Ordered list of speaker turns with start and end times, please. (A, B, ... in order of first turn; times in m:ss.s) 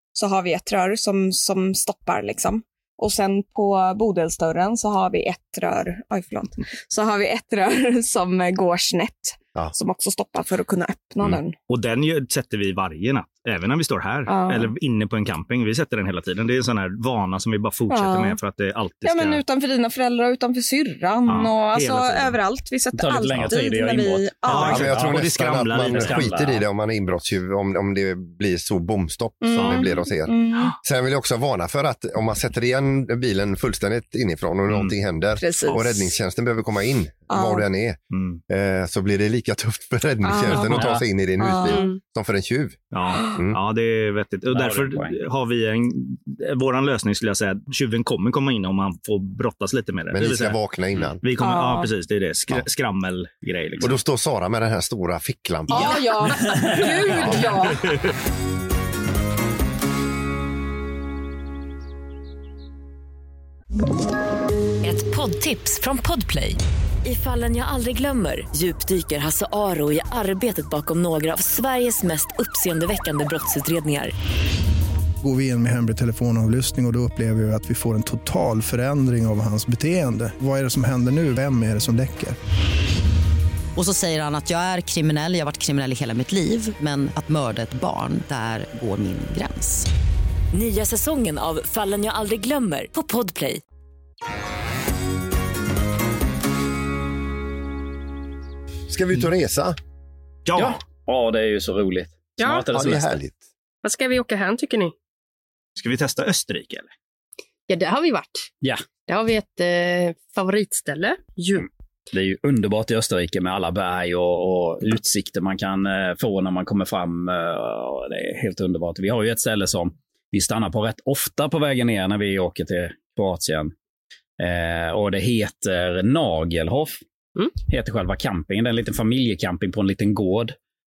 0:00.2-0:11.6 A
0:11.7-0:19.4 B
0:14.3-0:14.7 A
0:17.9-0:18.4 A
0:19.0-0:24.9 A
0:21.3-0:22.4 B
0:22.9-0:26.6 C
0:24.5-0:26.2 B
0:24.6-0:42.8 D
0:29.4-0:30.8 A
0:29.5-0:29.9 B
0:35.4-0:36.1 A
0:37.3-0:37.7 A
0:38.1-0:38.4 B
0:40.2-0:42.0 A
0:40.7-0:41.0 C
0:42.9-0:50.6 B
0:44.5-0:45.2 C
0:50.1-0:51.2 D
0:51.2-0:54.0 B
0:51.4-0:51.9 A
0:53.8-0:56.1 D
0:55.7-0:57.9 A
0:55.7-0:58.1 B
1:04.8-1:14.1 E
1:15.2-1:22.4 F
1:23.8-1:29.9 G
1:30.5-1:33.6 E
1:38.9-1:39.8 D
1:40.5-1:40.8 B
1:40.6-1:43.2 C
1:42.4-1:42.7 H
1:42.7-1:43.4 D
1:43.8-1:44.9 H
1:45.8-1:46.9 B
1:47.7-1:48.5 H
1:49.1-1:51.7 H
1:52.1-2:03.7 C
2:04.4-2:07.0 C
2:07.7-2:10.6 C